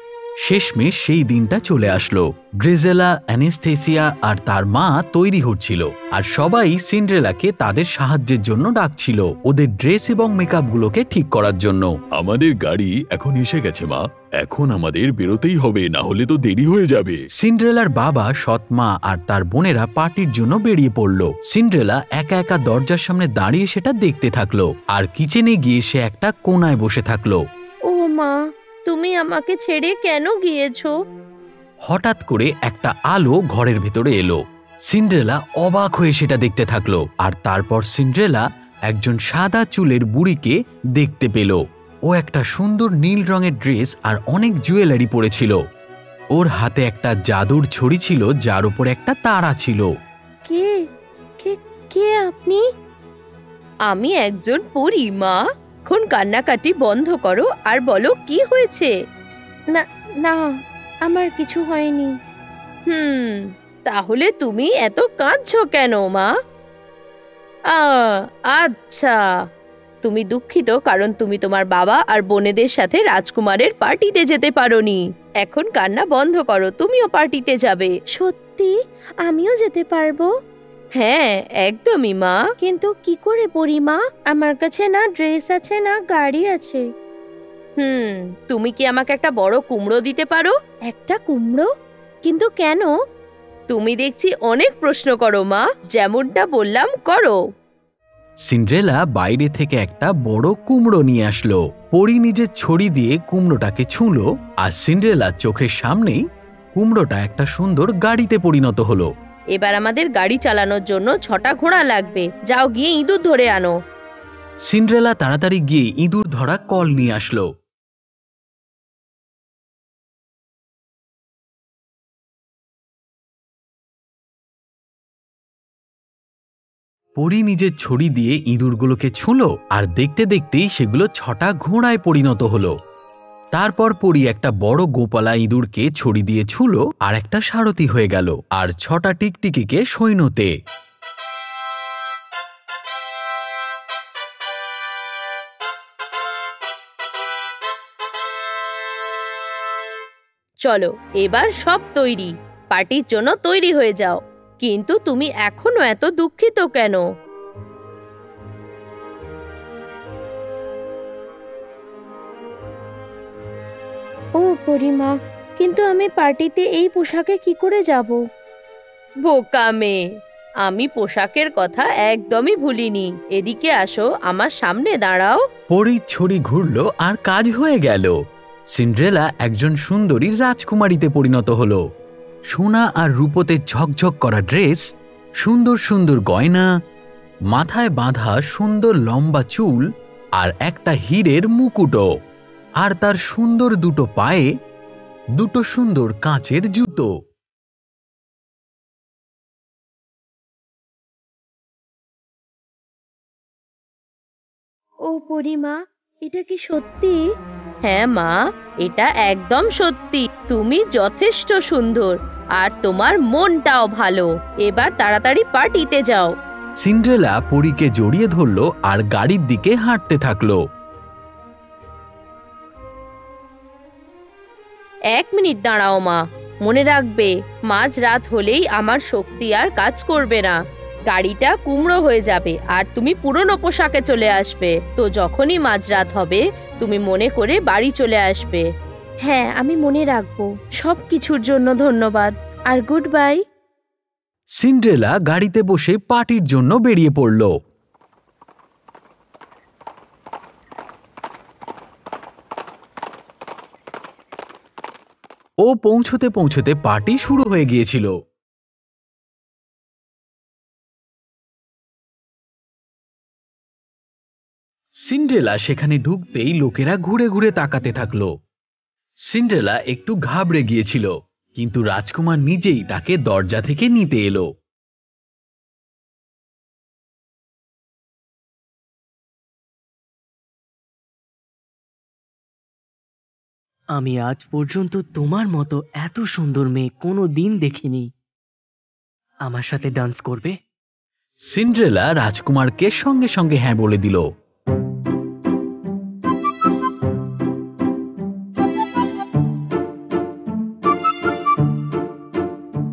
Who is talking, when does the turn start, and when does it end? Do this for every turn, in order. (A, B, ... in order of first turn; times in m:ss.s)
0:00.4-0:12.1 A
0:12.1-0:17.2 B
0:17.3-0:27.4 A
0:27.9-0:30.9 C
0:31.9-0:45.6 A
0:46.4-0:49.9 A
0:50.5-0:50.7 C
0:51.4-0:52.6 C
0:53.9-0:58.9 C
0:59.7-1:00.5 C
1:01.1-1:02.1 C
1:02.9-1:06.3 C
1:07.7-1:09.2 C
1:10.0-1:18.7 C
1:19.2-1:20.3 C
1:21.0-1:26.8 C
1:27.8-1:31.7 C
1:32.2-1:32.9 C
1:33.7-1:37.4 C
1:38.5-1:46.2 A
1:46.8-1:49.1 A
1:49.6-1:53.7 C
1:54.7-1:57.5 A
2:07.2-2:12.7 A
2:13.5-2:20.5 A
2:30.6-2:37.0 C
2:44.4-2:48.2 C
2:49.3-2:50.0 C
2:50.6-2:55.4 C
2:55.7-2:58.1 A
2:58.7-3:01.8 A
3:02.5-3:04.8 A
3:05.4-3:06.7 A
3:07.5-3:09.9 A
3:10.4-3:12.1 A
3:12.8-3:14.5 A
3:15.4-3:17.1 A
3:25.1-3:25.8 C
3:26.3-3:27.2 C
3:27.8-3:36.3 C
3:36.8-3:40.6 A
3:45.1-3:50.6 C
3:51.1-3:58.6 C
3:59.3-4:03.4 C
4:04.6-4:07.5 A
4:15.6-4:18.1 A
4:25.1-4:28.3 A
4:29.3-4:34.5 A
4:44.0-4:48.1 D
4:49.5-4:50.6 D
4:51.5-4:54.2 A